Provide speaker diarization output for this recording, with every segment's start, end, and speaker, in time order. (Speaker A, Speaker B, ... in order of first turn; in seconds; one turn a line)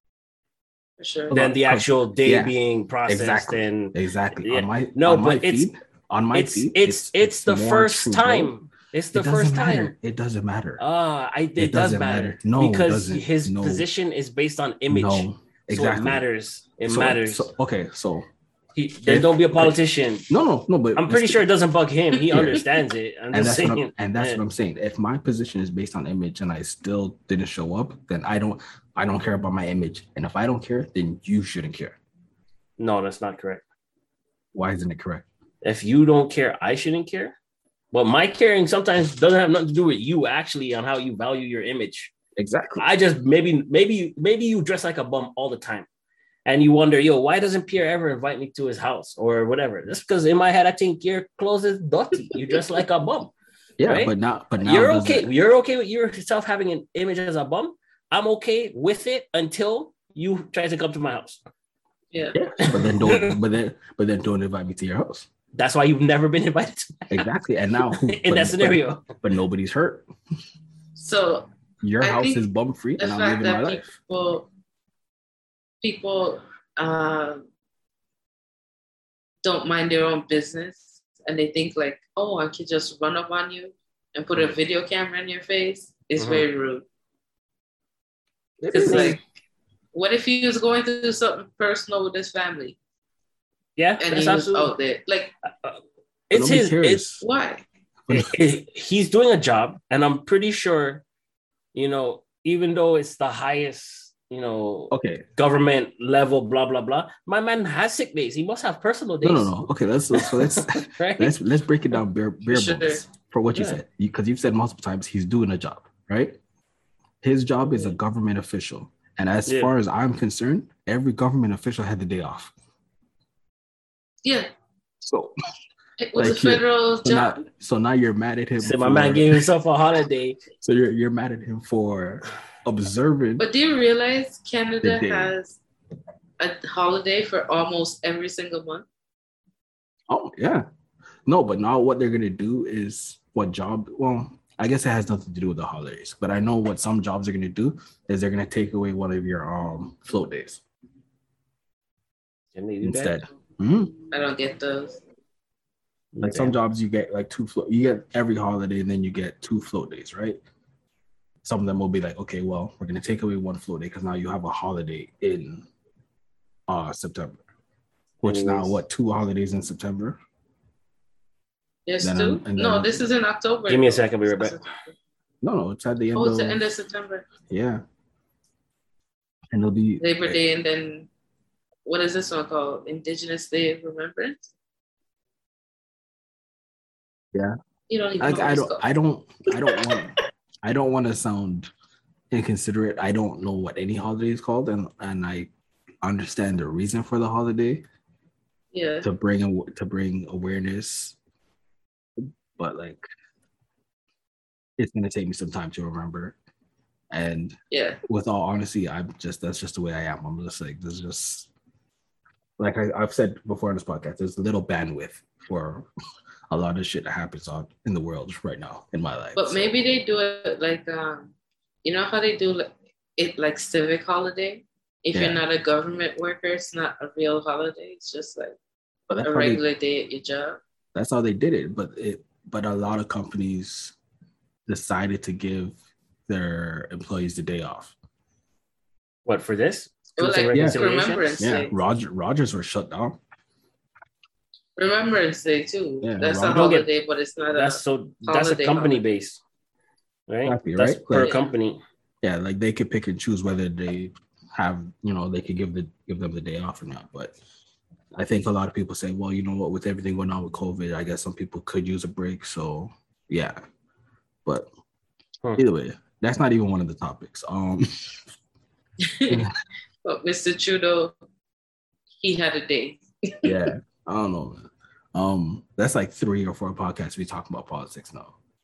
Speaker A: 1.0-1.4
Speaker B: 1.3-2.5
Speaker C: 1.3-5.7
Speaker B: 3.0-8.5
Speaker C: 6.3-9.9
Speaker B: 9.1-10.8
Speaker C: 10.8-17.5
Speaker B: 11.6-13.8
Speaker B: 14.9-16.2
Speaker B: 16.8-18.3
Speaker C: 18.8-20.3
Speaker B: 19.0-21.4
Speaker C: 21.0-24.4
Speaker B: 22.3-22.7
Speaker B: 23.3-32.0
Speaker C: 32.8-33.6
Speaker B: 34.5-35.2
Speaker C: 35.6-37.3
Speaker C: 37.9-42.1
Speaker B: 42.4-42.9
Speaker C: 42.8-45.9
Speaker C: 46.5-53.3
Speaker B: 53.8-55.3
Speaker C: 53.8-61.4
Speaker A: 62.1-62.4
Speaker B: 62.3-65.3
Speaker C: 62.6-63.4
Speaker C: 65.5-67.3
Speaker B: 67.1-70.0
Speaker C: 67.9-69.1
Speaker A: 71.0-71.5
Speaker B: 71.8-73.9
Speaker A: 72.0-72.5
Speaker A: 73.0-74.5
Speaker A: 75.8-77.5
Speaker A: 79.4-86.8
Speaker C: 86.2-86.4
Speaker B: 88.6-89.2
Speaker A: 88.7-89.2
Speaker C: 88.8-89.2
Speaker A: 89.9-92.8
Speaker C: 93.8-94.7
Speaker A: 94.0-95.3
Speaker C: 96.3-97.0
Speaker B: 96.3-97.2
Speaker A: 97.2-97.6
Speaker B: 98.1-98.3
Speaker C: 98.1-101.0
Speaker C: 101.7-109.5
Speaker B: 104.9-105.2
Speaker B: 109.2-116.4
Speaker C: 110.1-111.4
Speaker A: 112.5-113.0
Speaker C: 113.5-113.8
Speaker B: 117.2-122.5
Speaker C: 119.5-119.7
Speaker A: 124.2-124.5
Speaker B: 125.0-125.3
Speaker A: 126.0-127.4
Speaker B: 126.2-129.5
Speaker C: 128.6-130.4
Speaker B: 130.6-133.4
Speaker A: 133.4-135.6
Speaker B: 134.8-135.3
Speaker A: 136.4-138.8
Speaker B: 140.1-140.7
Speaker B: 141.3-150.6
Speaker C: 152.5-153.2
Speaker B: 152.8-154.0
Speaker A: 154.1-155.0
Speaker C: 156.1-156.6
Speaker B: 156.2-160.4
Speaker B: 161.4-165.7
Speaker B: 166.7-167.4
Speaker B: 168.2-170.2
Speaker C: 168.2-168.8
Speaker A: 171.8-174.9
Speaker B: 172.0-173.1
Speaker C: 173.7-174.6
Speaker B: 175.4-176.7
Speaker A: 176.1-177.3
Speaker B: 177.4-177.8
Speaker B: 179.5-180.4
Speaker A: 180.0-181.1
Speaker A: 181.8-184.4
Speaker A: 187.9-188.8
Speaker B: 188.2-191.7
Speaker B: 192.3-195.5
Speaker B: 196.0-197.8
Speaker A: 198.7-199.1
Speaker B: 199.0-201.2
Speaker B: 202.6-203.0
Speaker B: 204.8-206.3
Speaker B: 207.1-207.6
Speaker A: 207.7-208.0
Speaker B: 208.1-211.5
Speaker B: 212.6-215.9
Speaker B: 216.5-219.7
Speaker A: 219.3-221.3
Speaker A: 221.8-228.5
Speaker B: 225.1-225.4
Speaker B: 229.1-229.6
Speaker A: 229.2-230.6
Speaker B: 230.9-233.9
Speaker B: 234.7-235.8
Speaker B: 236.3-237.9
Speaker C: 239.2-241.3
Speaker A: 240.2-241.9
Speaker B: 240.5-240.8
Speaker B: 241.4-243.2
Speaker A: 244.8-249.0
Speaker B: 246.0-246.7
Speaker C: 246.5-246.9
Speaker C: 247.5-249.4
Speaker C: 250.3-251.8
Speaker B: 250.4-251.3
Speaker A: 251.2-251.5
Speaker B: 252.2-257.3
Speaker B: 258.1-263.6
Speaker B: 265.6-268.2
Speaker A: 269.0-269.4
Speaker B: 269.3-269.5
Speaker A: 270.0-271.1
Speaker A: 272.2-273.7
Speaker B: 273.4-278.4